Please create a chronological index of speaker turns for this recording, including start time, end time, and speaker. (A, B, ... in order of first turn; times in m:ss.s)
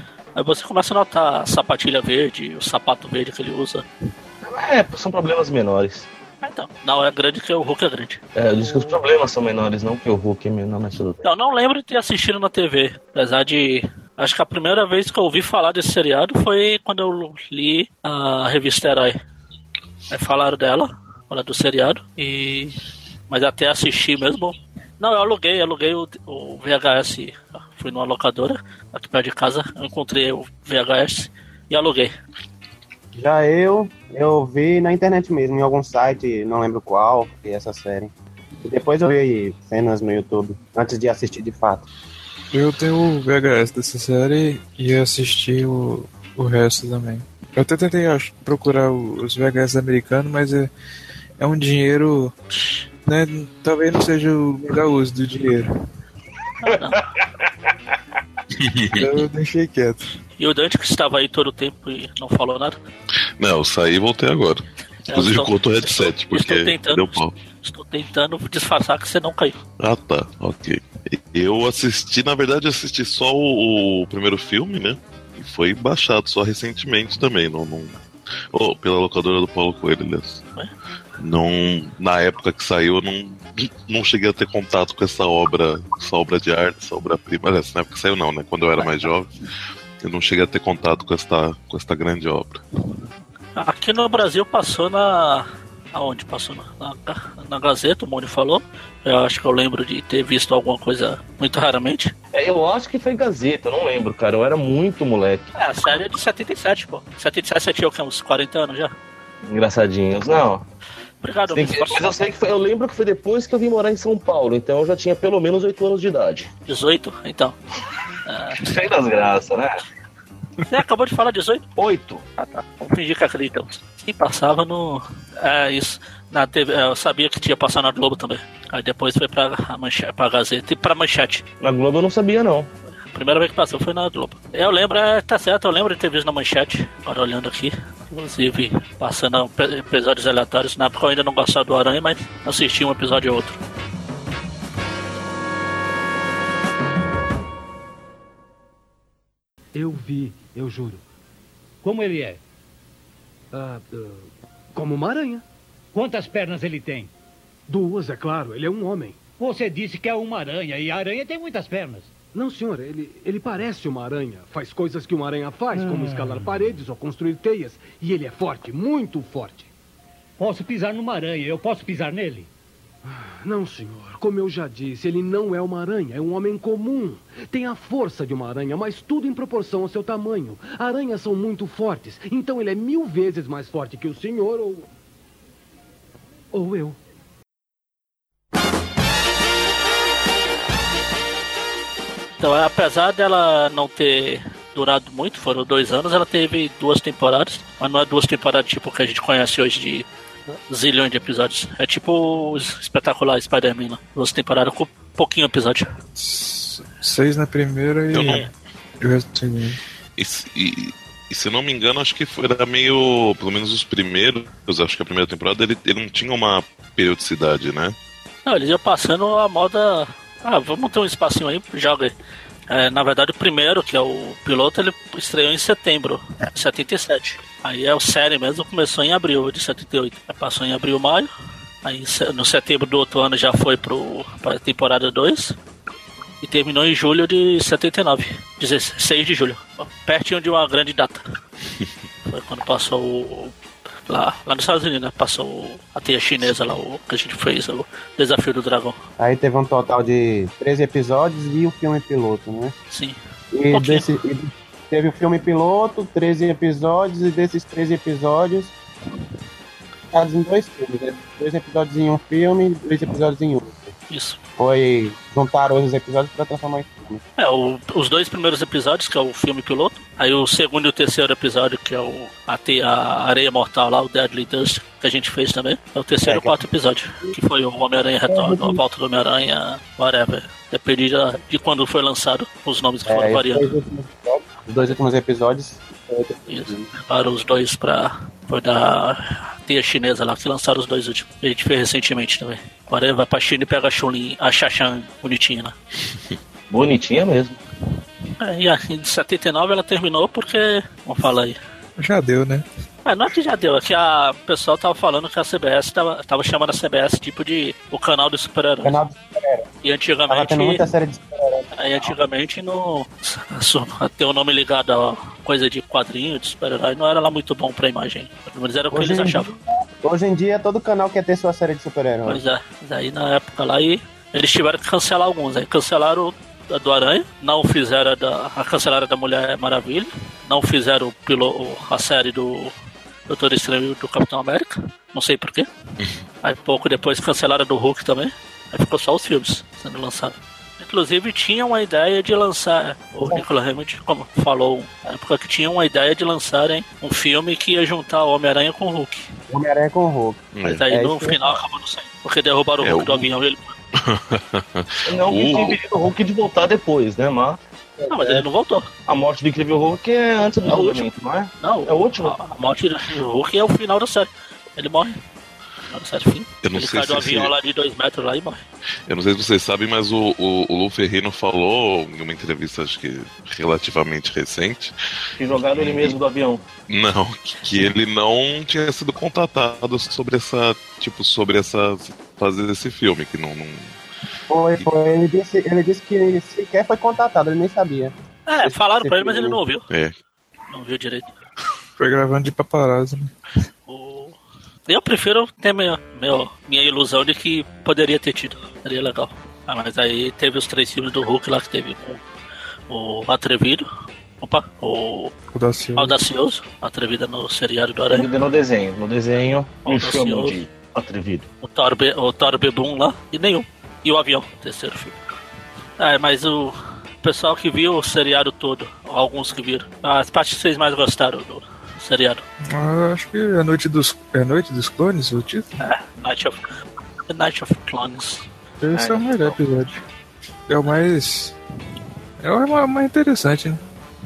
0:00.4-0:03.8 A
0:04.4-0:06.1 B
0:06.4-0:09.0 A
0:08.4-0:11.2 B
0:11.2-0:19.2 A
0:20.1-0:22.8 A
0:23.3-0:32.1 A
0:33.1-0:38.1 C
0:38.6-0:41.9 C
0:42.5-0:50.7 D
0:51.4-0:52.3 D
0:53.0-0:55.7 D
0:56.6-0:57.0 A
0:56.7-0:57.5 B
0:58.6-0:59.1 E
0:59.0-1:00.2 D
1:00.4-1:02.8 A
1:03.4-1:07.3 E
1:05.1-1:09.6 A
1:09.8-1:18.0 E
1:18.5-1:20.4 E
1:21.2-1:29.3 E
1:30.0-1:32.6 E
1:33.6-1:42.1 A
1:42.3-1:45.5 B
1:45.6-1:48.9 A
1:49.4-1:50.6 B
1:51.2-1:52.1 A
1:51.5-1:56.5 B
1:56.7-1:57.6 A
1:58.3-1:58.8 A
1:58.5-1:59.8 B
2:00.7-2:01.6 A
2:01.8-2:02.2 B
2:02.4-2:11.4 A
2:11.6-2:12.7 B
2:13.1-2:23.6 A
2:29.8-2:31.0 F
2:31.8-2:32.4 G
2:33.5-2:35.4 F
2:35.9-2:37.1 G
2:37.7-2:39.2 F
2:39.4-2:42.1 G
2:42.3-2:49.7 F
2:45.7-2:46.6 G
2:50.4-2:52.5 G
2:53.0-3:04.9 F
3:06.5-3:07.0 F
3:12.4-3:20.1 A
3:20.7-3:25.9 A
3:26.2-3:28.5 D
3:28.1-3:28.5 E
3:29.0-3:29.8 D
3:30.2-3:38.0 E
3:38.5-3:42.1 A
3:42.7-3:51.3 A
3:51.8-3:55.6 A
3:56.4-4:01.3 A
4:02.2-4:03.6 A
4:04.1-4:09.0 A
4:09.2-4:12.7 C
4:12.9-4:13.2 A
4:13.5-4:18.7 C
4:13.7-4:14.1 A
4:20.1-4:23.9 C
4:24.1-4:24.4 A
4:24.6-4:27.2 C
4:27.4-4:43.7 A
4:36.2-4:36.6 C
4:38.3-4:38.8 C
4:43.1-4:46.9 C
4:46.5-4:55.8 A
4:56.7-4:57.6 B
4:58.4-5:01.6 A
5:02.0-5:02.7 D
5:03.0-5:09.0 A
5:08.8-5:09.7 C
5:09.8-5:10.8 A
5:10.3-5:12.2 C
5:11.8-5:19.5 A
5:18.9-5:22.4 C
5:22.3-5:32.7 A
5:33.3-5:35.7 A
5:36.4-5:49.3 A
5:49.5-5:51.6 C
5:50.5-5:50.8 E
5:50.6-5:53.7 A
5:52.8-5:53.3 E
5:54.0-5:55.8 E
5:55.0-5:57.6 B
5:58.0-5:58.5 C
5:58.1-5:58.9 A
5:59.1-6:02.4 B
6:00.6-6:01.1 A
6:01.6-6:05.2 A
6:05.9-6:08.6 A
6:06.6-6:07.5 E
6:09.1-6:15.0 E
6:15.4-6:16.6 B
6:15.6-6:16.2 E
6:16.9-6:24.0 E
6:24.5-6:29.6 C
6:28.5-6:29.9 A
6:30.7-6:31.3 A
6:32.0-6:33.3 D
6:33.9-6:42.2 A
6:42.9-6:43.9 A
6:44.4-6:45.3 A
6:45.5-6:46.2 D
6:46.0-6:48.3 A
6:48.1-6:51.5 B
6:49.8-6:50.6 A
6:51.6-6:55.2 A
6:56.0-7:02.4 A
7:02.7-7:05.8 D
7:05.8-7:06.6 A
7:07.3-7:08.5 A
7:08.8-7:10.0 D
7:08.9-7:09.6 B
7:10.7-7:11.6 D
7:12.4-7:13.8 D